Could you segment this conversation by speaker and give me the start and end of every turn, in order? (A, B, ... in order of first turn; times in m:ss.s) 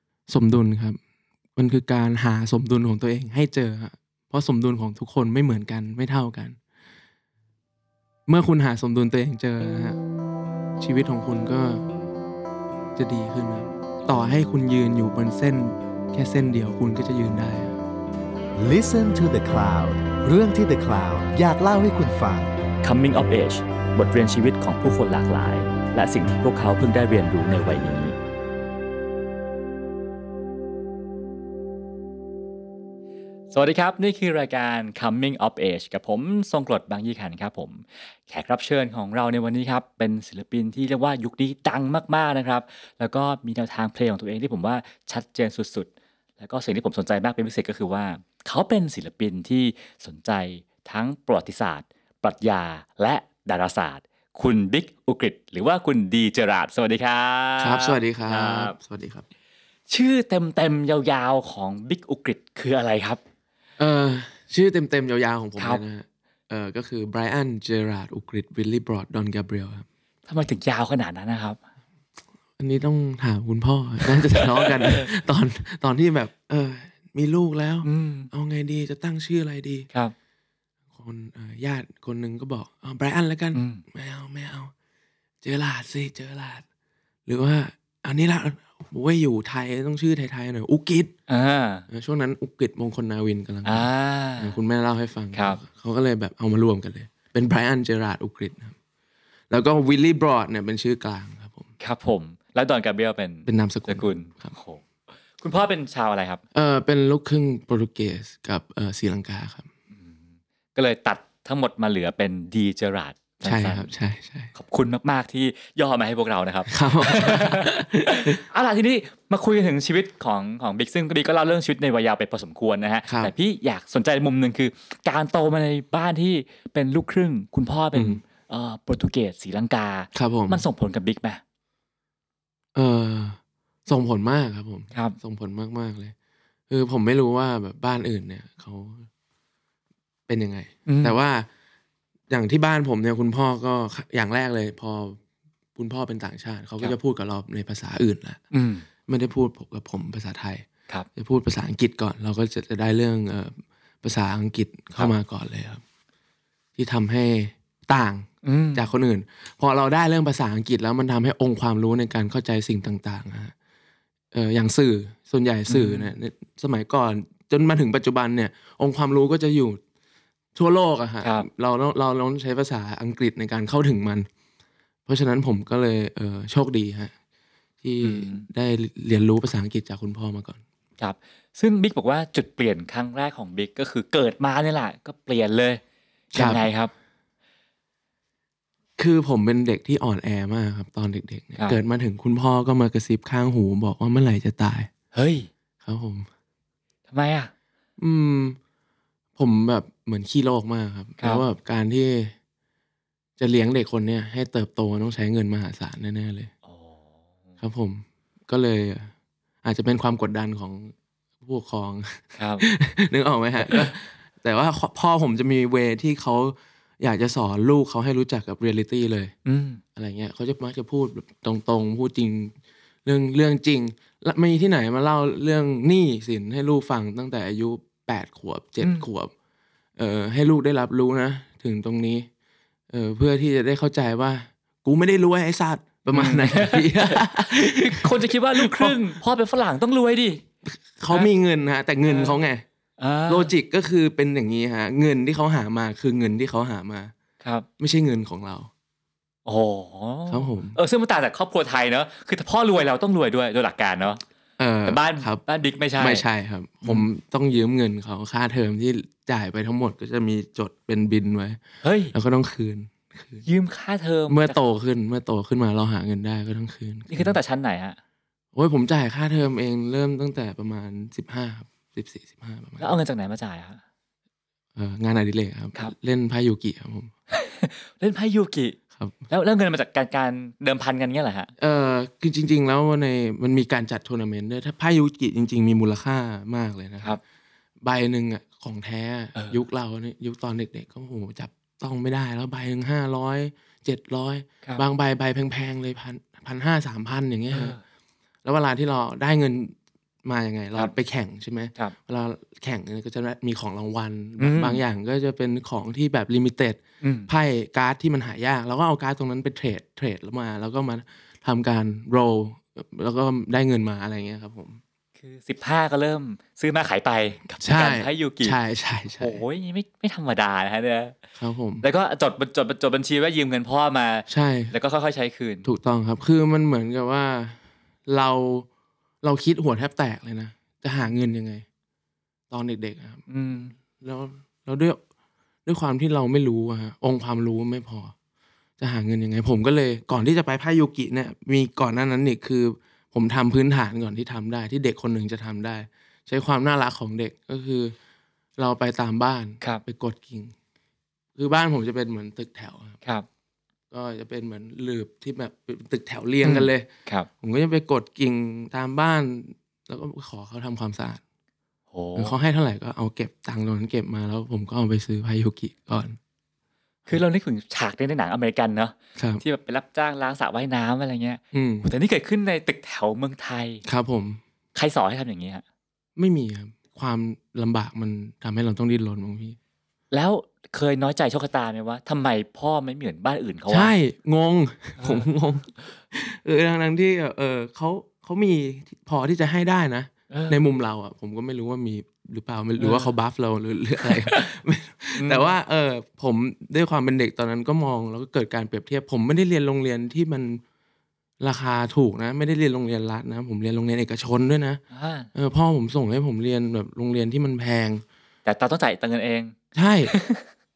0:00.3-0:01.0 A
0:01.6-0:06.6 A
0:08.3-0:10.0 A
0:10.8-0:11.8 A
0:13.0-0:17.8 A
0:18.6-0:22.5 B
0:22.8-0:28.1 C
0:33.5-0:45.9 C
0:46.4-0:58.8 C
0:57.6-0:59.2 A
0:59.9-1:03.2 C
1:03.8-1:09.8 A
1:10.3-1:11.6 C
1:12.6-1:19.9 A
1:14.0-1:15.0 C
1:17.8-1:18.3 C
1:21.0-1:24.7 A
1:23.5-1:23.8 C
1:25.4-1:26.6 A
1:27.2-1:31.1 A
1:31.3-1:31.9 C
1:31.9-1:38.7 A
1:33.6-1:34.6 C
1:35.3-1:35.6 C
1:39.5-1:41.7 A
1:41.8-1:44.8 C
1:43.4-1:44.5 A
1:45.4-1:46.4 C
1:46.5-1:49.7 A
1:49.9-1:53.9 C
1:53.4-1:54.5 A
1:54.5-2:11.4 C
1:56.7-1:58.4 A
2:03.1-2:03.3 A
2:07.9-2:08.2 A
2:10.1-2:10.6 A
2:12.7-2:16.1 A
2:16.7-2:19.1 A
2:20.3-2:21.5 A
2:20.8-2:21.2 C
2:22.3-2:25.2 A
2:25.8-2:28.4 A
2:28.5-2:28.8 C
2:29.1-2:35.8 A
2:36.8-2:43.5 A
2:38.4-2:38.9 C
2:44.3-2:49.8 A
2:45.7-2:46.1 C
2:50.5-2:54.3 A
2:55.0-2:57.1 A
2:57.8-3:00.6 A
2:58.0-2:58.5 C
3:01.0-3:05.8 C
3:06.3-3:06.6 A
3:06.3-3:06.9 C
3:09.0-3:14.9 A
3:15.1-3:15.5 C
3:15.8-3:16.3 A
3:17.1-3:17.5 C
3:18.0-3:18.6 A
3:19.4-3:22.3 A
3:23.4-3:26.5 A
3:26.6-3:27.0 C
3:27.6-3:29.1 A
3:29.6-3:39.3 A
3:32.4-3:32.6 C
3:33.6-3:33.9 C
3:39.4-3:39.8 C
3:40.0-3:49.3 A
3:48.8-3:49.0 C
3:50.0-3:52.3 A
3:52.9-3:59.0 A
3:56.1-4:00.4 C
4:00.6-4:02.6 A
4:02.0-4:02.4 C
4:03.0-4:03.5 C
4:03.3-4:07.1 A
4:07.4-4:07.6 C
4:07.8-4:08.7 A
4:09.4-4:14.2 C
4:10.3-4:10.8 A
4:14.6-4:15.4 A
4:14.8-4:16.2 C
4:16.0-4:21.6 A
4:21.8-4:22.1 C
4:22.1-4:23.4 A
4:23.4-4:24.6 C
4:24.3-4:27.4 A
4:27.1-4:28.0 C
4:28.5-4:32.9 A
4:32.8-4:33.8 C
4:34.8-4:37.1 A
4:37.3-4:38.8 C
4:39.3-4:41.5 C
4:41.6-4:47.2 A
4:47.8-4:57.8 A
4:57.5-4:57.8 C
4:58.4-5:14.8 A
5:04.4-5:04.8 C
5:07.0-5:07.3 C
5:15.2-5:18.6 C
5:17.6-5:19.4 A
5:19.2-5:21.2 C
5:21.4-5:21.8 A
5:21.8-5:25.7 C
5:24.3-5:24.7 A
5:25.6-5:28.7 A
5:29.2-5:31.6 A
5:32.5-5:33.3 A
5:33.3-5:33.7 C
5:33.8-5:35.0 A
5:35.6-5:38.1 A
5:38.8-5:47.9 A
5:48.6-5:50.5 A
5:51.4-5:53.0 A
5:53.9-5:56.9 A
5:56.4-5:57.3 C
5:57.4-6:01.2 A
6:01.9-6:02.4 C
6:02.2-6:06.2 A
6:07.1-6:13.8 C
6:09.2-6:09.4 A
6:11.5-6:11.9 A
6:13.8-6:14.4 A
6:14.7-6:15.6 C
6:16.2-6:19.6 A
6:20.1-6:23.9 C
6:23.7-6:40.6 A
6:25.0-6:25.3 C
6:30.3-6:30.6 C
6:32.8-6:33.1 C
6:34.0-6:34.5 C
6:35.2-6:35.5 C
6:41.4-6:44.8 A
6:44.9-6:45.3 C
6:45.3-6:48.0 A
6:48.4-6:49.5 C
6:49.7-6:50.1 A
6:50.1-6:50.4 C